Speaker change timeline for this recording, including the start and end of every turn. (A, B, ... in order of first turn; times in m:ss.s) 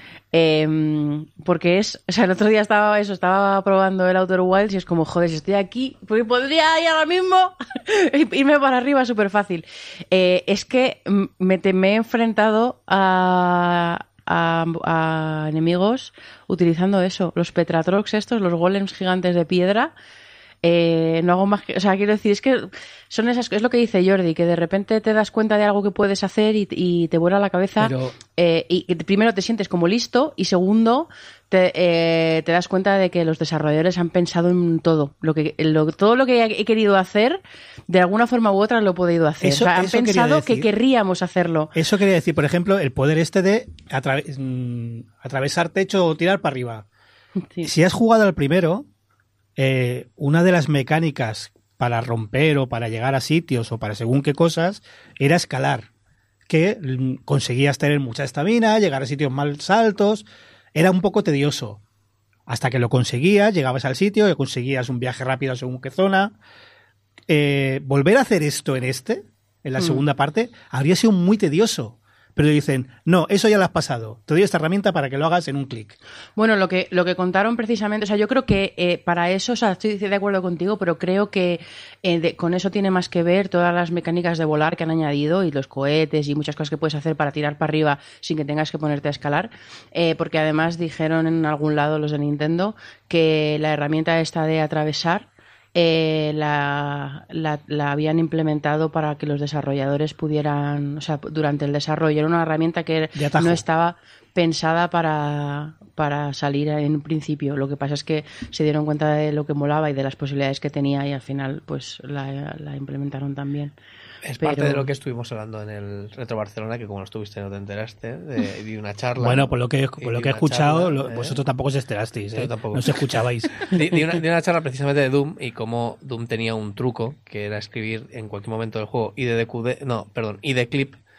0:00.3-0:19.9 A
0:20.6-0:41.7 A
0:27.8-0:28.1 B
0:39.4-0:40.7 B
0:41.8-0:46.9 B
0:47.6-0:48.9 B
0:49.6-0:55.9 B
0:56.5-1:01.8 B
1:02.5-1:06.4 B
1:07.3-1:16.0 B
1:16.4-1:53.8 A
1:43.2-1:43.6 B
1:54.2-2:01.4 C
1:54.4-1:54.9 A
1:59.2-2:03.7 B
2:02.4-2:11.0 C